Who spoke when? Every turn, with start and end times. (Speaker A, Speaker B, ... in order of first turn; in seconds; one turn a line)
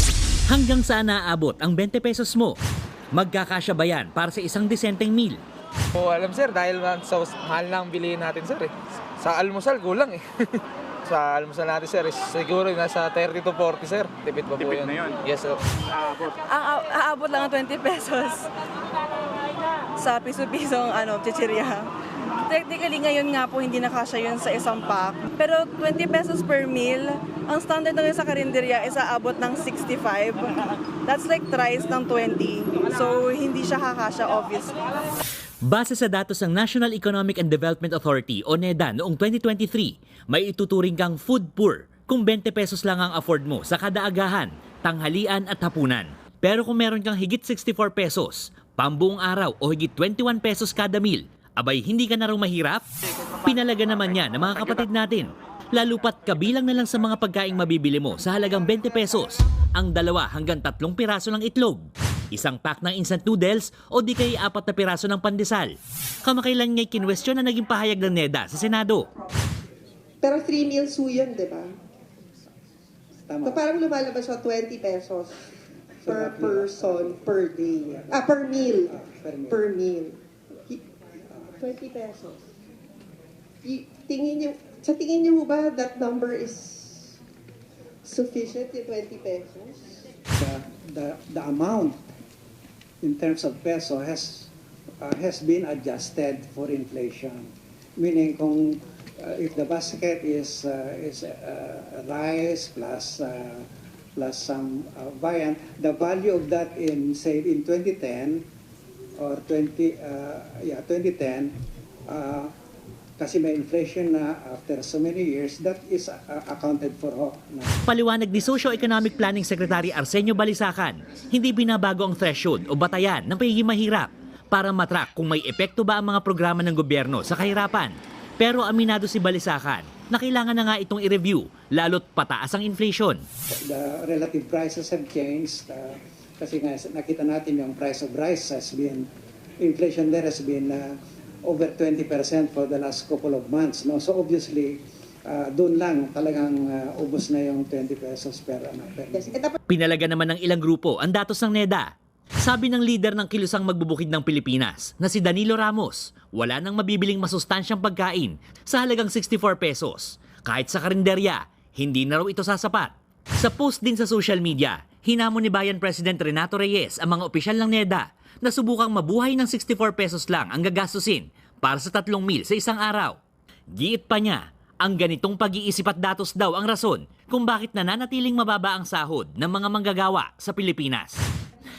Speaker A: 0.5-2.6
Speaker A: 3.1-5.4
Speaker B: 5.9-15.6
Speaker C: 16.3-18.5
Speaker C: 20.0-21.9
Speaker C: 22.4-34.8
Speaker A: 35.6-52.8
Speaker A: 53.4-65.7
Speaker A: 66.2-69.1
Speaker D: 70.2-71.7
Speaker E: 73.3-73.7
Speaker D: 73.4-75.4
Speaker E: 76.0-78.3
Speaker D: 76.1-79.0
Speaker E: 78.8-79.7
Speaker D: 79.5-80.8
Speaker D: 81.6-82.4
Speaker D: 83.6-87.2
Speaker D: 88.0-90.0
Speaker E: 90.3-92.0
Speaker E: 93.0-108.4
Speaker E: 109.2-111.6
Speaker E: 112.1-112.5
Speaker E: 113.2-117.7
Speaker A: 117.8-133.2
Speaker E: 133.6-139.1
Speaker E: 139.6-149.3
Speaker D: 149.1-149.6
Speaker A: 149.7-151.9
Speaker A: 152.4-173.2
Speaker A: 173.7-181.2